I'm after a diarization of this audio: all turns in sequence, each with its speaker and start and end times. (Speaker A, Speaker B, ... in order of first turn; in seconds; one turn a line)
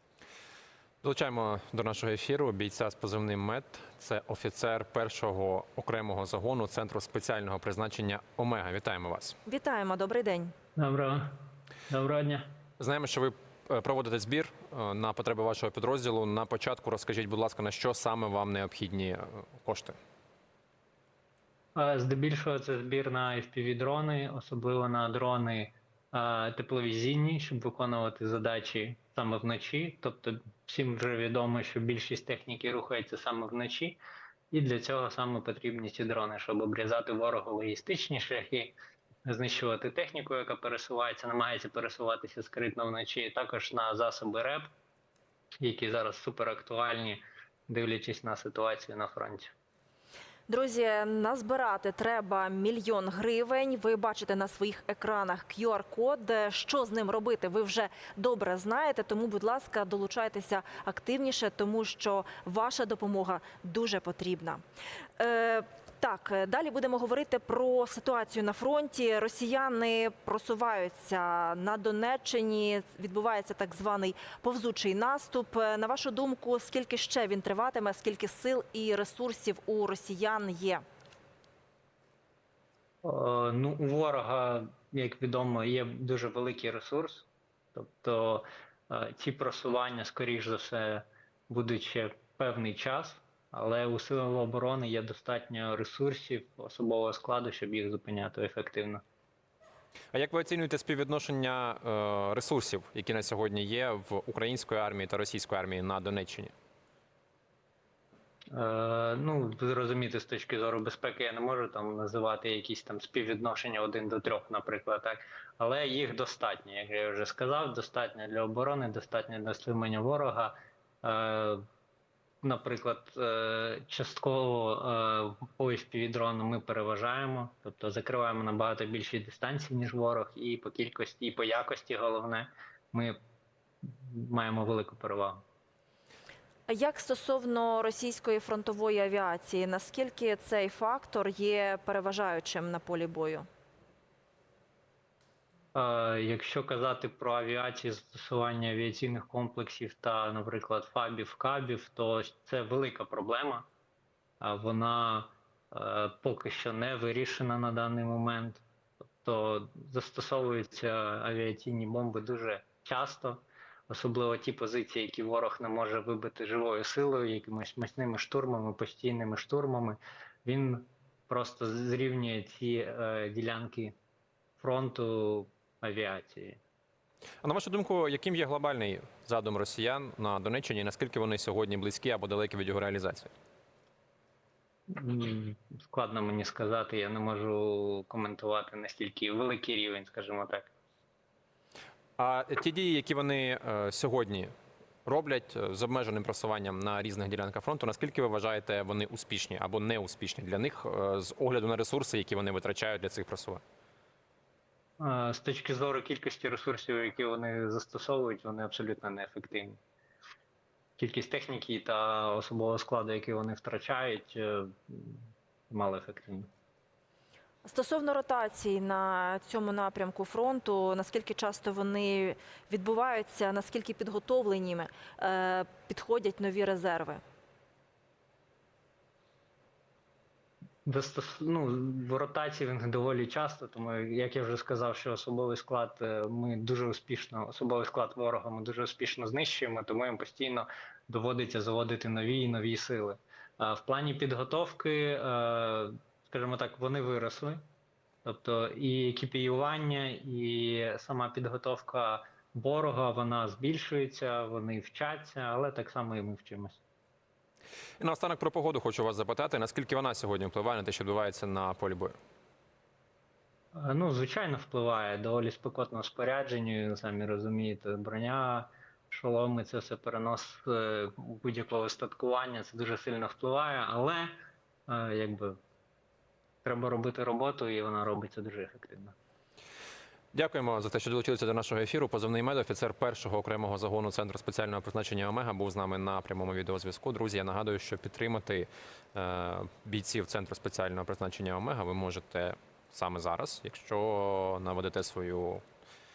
Speaker A: 1.0-9.4
Speaker B: 9.4-10.5
Speaker C: 10.8-11.3
Speaker C: 11.9-12.5
Speaker A: 12.8-20.0
Speaker C: 21.7-34.0
Speaker C: 34.5-38.7
Speaker C: 39.2-44.7
Speaker C: 45.6-49.5
Speaker B: 50.5-64.6
Speaker B: 65.2-80.8
Speaker C: 83.0-99.0
Speaker A: 100.1-106.5
Speaker C: 108.5-121.7
Speaker C: 122.4-133.2
Speaker C: 133.8-135.4
Speaker B: 136.7-143.5
Speaker C: 145.7-153.7
Speaker C: 154.4-158.6
Speaker C: 159.2-173.9
Speaker C: 174.6-176.6
Speaker A: 177.4-183.3
Speaker C: 184.9-190.7
Speaker A: 192.2-194.5
Speaker A: 195.0-203.6
Speaker C: 205.0-209.8
Speaker C: 211.0-216.5
Speaker B: 217.6-227.2
Speaker C: 230.8-247.6
Speaker C: 248.2-256.8
Speaker A: 258.0-262.1
Speaker C: 263.7-274.3
Speaker C: 274.9-275.6
Speaker C: 276.6-279.1
Speaker A: 280.3-295.6